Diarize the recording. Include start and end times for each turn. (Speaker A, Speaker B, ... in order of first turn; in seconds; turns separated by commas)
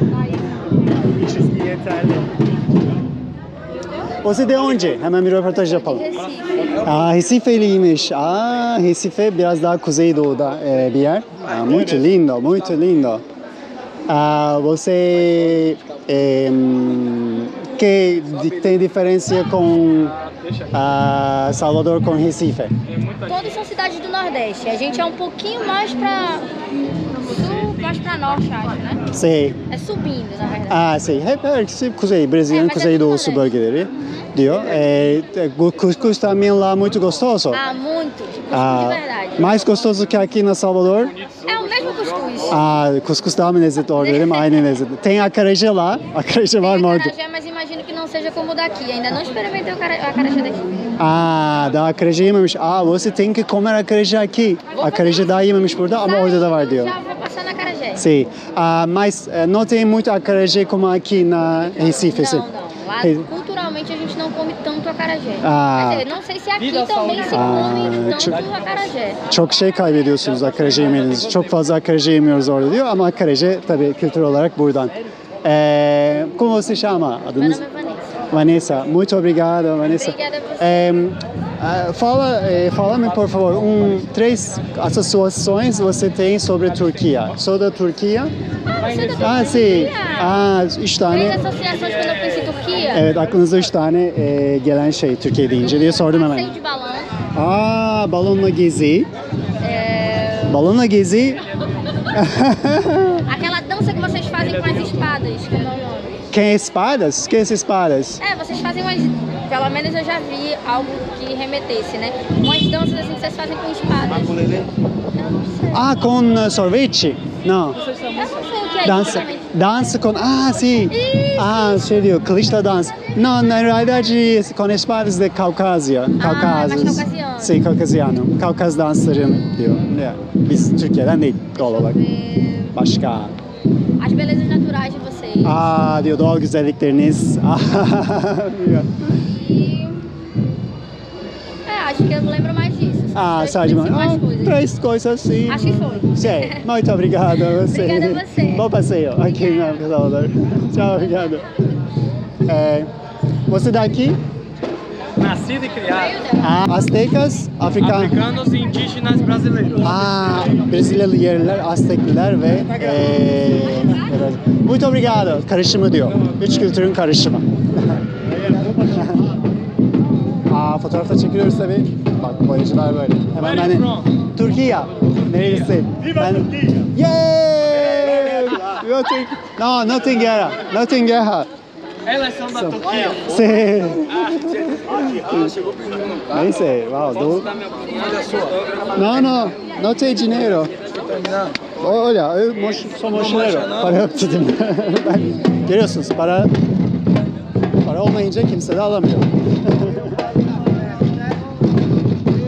Speaker A: 1.0-2.3, Speaker A: 4.2-6.2, Speaker A: 6.8-13.2, Speaker A: 14.1-20.2, Speaker A: 20.7-22.7, Speaker B: 23.3-26.5, Speaker B: 27.2-29.0, Speaker A: 29.1-29.6, Speaker B: 29.7-30.8, Speaker A: 30.7-37.6, Speaker B: 32.5-33.5, Speaker B: 37.5-39.6, Speaker A: 38.5-41.2, Speaker B: 41.4-42.6, Speaker A: 42.5-47.1, Speaker B: 44.0-44.4, Speaker B: 46.6-50.6, Speaker A: 51.0-57.0, Speaker B: 54.8-58.0, Speaker A: 58.0-62.5, Speaker B: 62.0-69.2, Speaker A: 63.0-63.3, Speaker A: 65.4-66.1, Speaker A: 67.3-68.4, Speaker A: 69.3-77.6, Speaker B: 77.4-78.1, Speaker A: 78.3-88.3, Speaker B: 80.0-80.8, Speaker B: 88.7-90.3, Speaker A: 89.2-91.4, Speaker B: 91.1-93.0, Speaker A: 92.9-96.6, Speaker B: 96.0-97.1, Speaker A: 97.3-99.1, Speaker B: 99.6-100.6, Speaker A: 100.5-101.4, Speaker A: 102.1-103.2, Speaker B: 103.3-106.2, Speaker A: 106.3-108.2, Speaker B: 108.2-115.9, Speaker A: 115.7-117.8, Speaker B: 118.1-119.7, Speaker A: 118.8-132.0, Speaker B: 120.9-122.0, Speaker B: 126.2-127.6, Speaker B: 131.6-132.7, Speaker A: 132.7-133.4, Speaker B: 134.0-135.7, Speaker A: 135.4-139.0, Speaker B: 139.2-140.0, Speaker B: 141.7-144.6, Speaker A: 143.1-151.5, Speaker B: 145.5-146.6, Speaker B: 147.6-148.7, Speaker A: 152.4-152.9, Speaker A: 153.5-154.2, Speaker C: 155.2-155.9, Speaker B: 155.8-156.5, Speaker A: 156.4-158.2, Speaker C: 158.2-159.8, Speaker A: 159.7-168.0, Speaker A: 168.6-169.3, Speaker A: 170.5-181.5, Speaker A: 182.4-185.5, Speaker C: 185.4-186.1, Speaker A: 186.3-187.5, Speaker C: 187.7-188.8, Speaker A: 188.9-190.7, Speaker C: 191.0-191.6, Speaker A: 191.8-196.5, Speaker A: 197.8-200.1